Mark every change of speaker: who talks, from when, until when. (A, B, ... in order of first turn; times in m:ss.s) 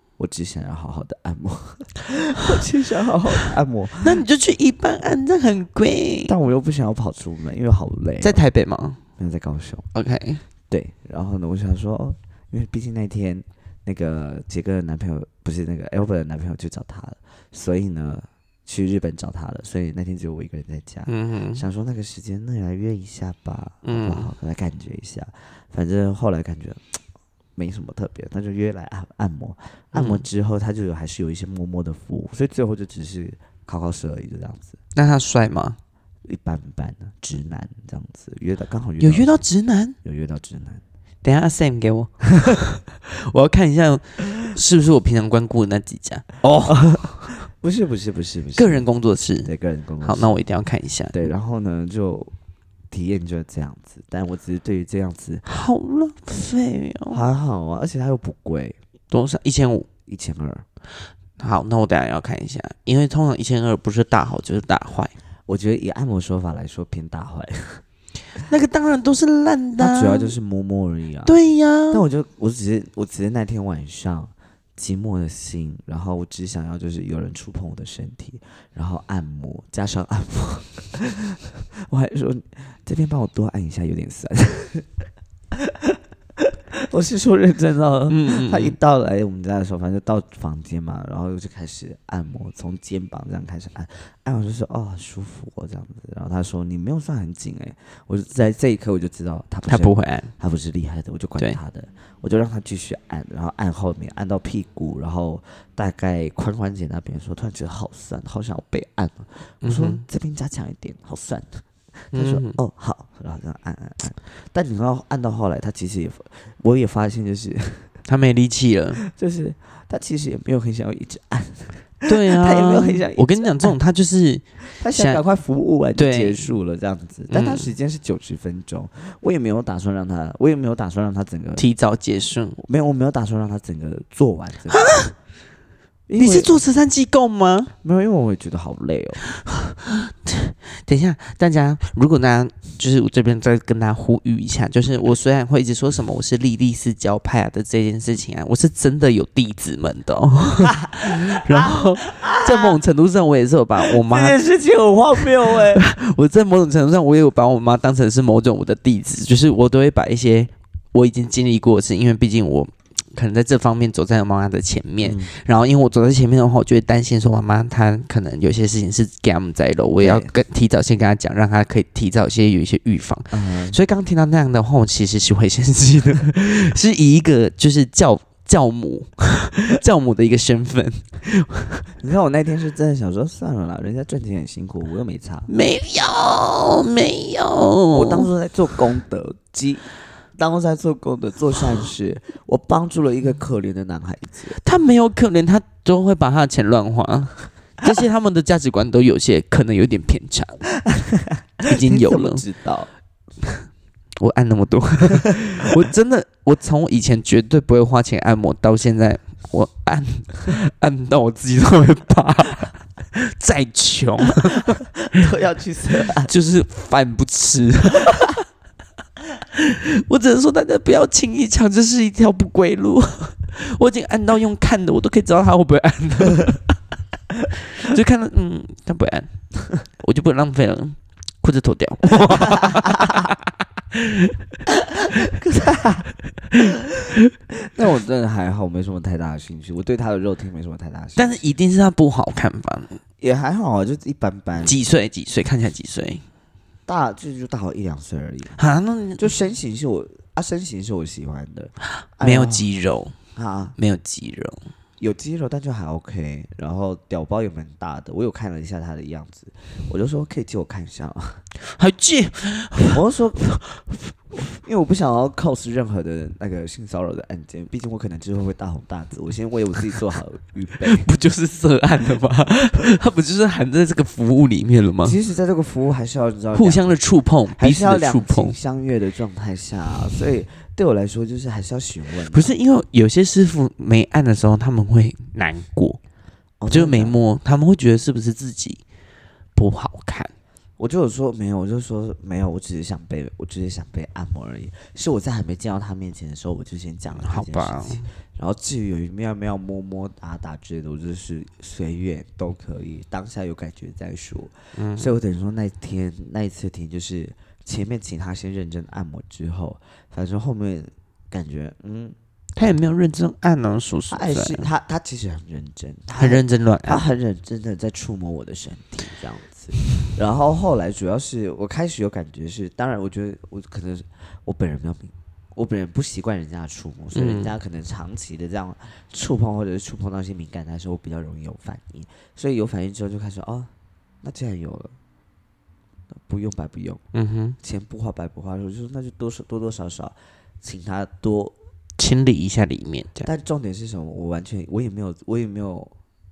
0:00.2-0:04.2 A
0:04.0-0:06.3 B
0:06.3-0:08.4 A
0:08.2-0:09.0 B
0:09.2-0:09.9 A
0:09.9-0:10.4 B
0:10.7-0:27.0 A
0:21.1-0:21.6 B
0:23.8-0:24.3 B
0:27.6-0:34.8 A
0:29.9-0:30.3 B
0:35.0-0:35.8 B
0:36.2-0:39.4 A
0:39.0-0:40.0 B
0:40.0-0:40.8 A
0:41.2-0:47.3 B
0:46.6-0:48.9 A
0:48.6-0:49.5 B
0:49.4-0:50.4 A
0:50.0-0:51.3 B
0:51.1-0:52.3 A
0:52.9-0:55.5 A
0:55.4-0:57.2 B
0:57.1-0:58.8 A
0:59.1-0:59.9 B
1:00.1-1:00.6 A
1:01.4-1:05.1 B
1:05.5-1:07.8 A
1:08.4-1:10.3 B
1:09.8-1:11.4 A
1:11.3-1:12.0 B
1:11.9-1:24.9 A
1:26.9-1:57.9 A
1:28.1-1:28.8 B
1:39.6-1:40.3 B
1:49.6-1:50.0 B
1:52.1-1:52.6 B
1:58.1-1:59.0 B
1:59.1-2:03.7 A
2:02.1-2:05.2 B
2:04.7-2:11.6 A
2:06.0-2:06.5 B
2:07.3-2:07.7 B
2:11.6-2:12.6 B
2:12.6-2:15.1 A
2:16.1-2:16.6 A
2:16.2-2:17.7 B
2:17.8-2:19.2 A
2:19.4-2:34.4 B
2:30.9-2:32.8 A
2:33.9-2:35.8 A
2:35.5-3:01.9 B
2:45.0-2:45.3 A
2:50.0-2:50.3 A
2:53.3-2:53.8 A
3:02.0-3:05.5 A
3:05.5-3:08.3 B
3:07.9-3:14.6 A
3:14.6-3:20.7 B
3:21.6-3:22.9 A
3:21.6-3:22.4 B
3:24.2-3:34.8 B
3:35.1-3:36.3 A
3:36.2-3:38.4 B
3:39.5-3:46.7 B
3:47.8-3:53.4 B
3:53.9-3:54.3 B
3:55.3-3:56.1 A
3:57.6-4:01.4 A
4:01.2-4:03.0 B
4:03.2-4:04.8 A
4:04.6-4:06.2 B
4:06.9-4:08.6 A
4:08.6-4:09.2 B
4:09.2-4:12.6 A
4:12.2-4:13.1 B
4:13.4-4:13.8 A
4:13.8-4:14.6 B
4:15.0-4:21.4 A
4:21.6-4:23.0 B
4:22.8-4:23.6 A
4:24.3-4:31.1 A
4:30.8-4:35.2 B
4:35.0-4:42.5 A
4:36.6-4:38.6 B
4:42.3-4:46.0 B
4:46.6-4:47.2 A
4:46.7-4:48.8 B
4:49.6-4:50.3 B
4:50.8-5:12.2 A
4:57.2-4:58.1 B
5:04.7-5:05.1 B
5:12.6-5:14.7 B
5:14.1-5:33.7 A
5:16.2-5:17.0 B
5:27.1-5:27.5 B
5:34.2-5:35.0 A
5:36.2-5:37.0 A
5:37.1-5:37.6 B
5:37.6-5:41.6 A
5:42.0-5:43.3 B
5:43.2-5:45.9 A